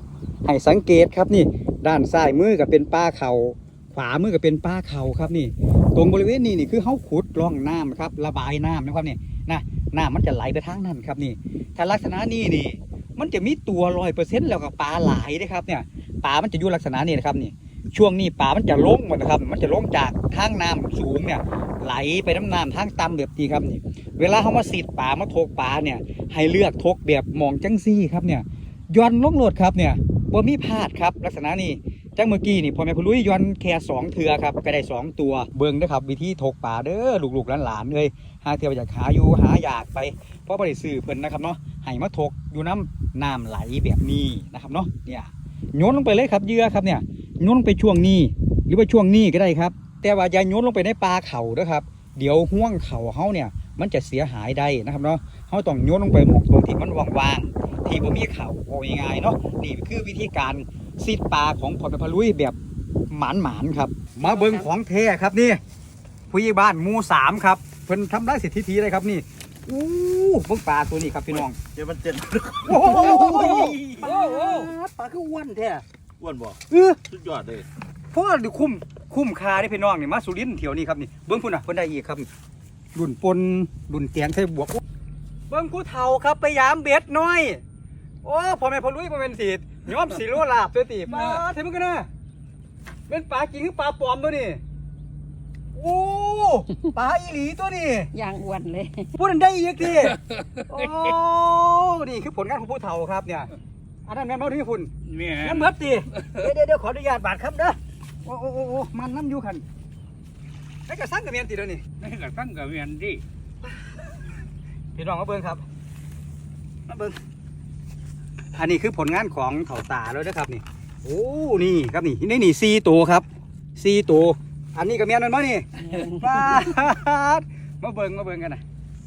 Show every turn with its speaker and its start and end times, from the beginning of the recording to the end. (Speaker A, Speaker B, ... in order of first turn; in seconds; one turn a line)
Speaker A: 0.5-62.5
Speaker A: 63.1-65.6
Speaker B: 64.3-64.6
Speaker A: 66.3-71.6
Speaker C: 71.8-72.5
Speaker A: 72.6-75.8
Speaker B: 74.0-74.7
Speaker C: 76.2-76.6
Speaker A: 76.7-77.0
Speaker C: 77.1-77.6
Speaker A: 78.1-82.3
Speaker A: 82.9-84.8
Speaker A: 85.5-87.6
Speaker A: 88.2-92.1
Speaker A: 93.1-94.6
Speaker A: 95.7-98.1
Speaker B: 98.1-99.1
Speaker A: 99.2-103.5
Speaker A: 104.1-109.6
Speaker A: 110.9-111.8
Speaker C: 112.0-113.2
Speaker A: 114.9-115.6
Speaker A: 116.9-117.2
Speaker A: 118.5-128.6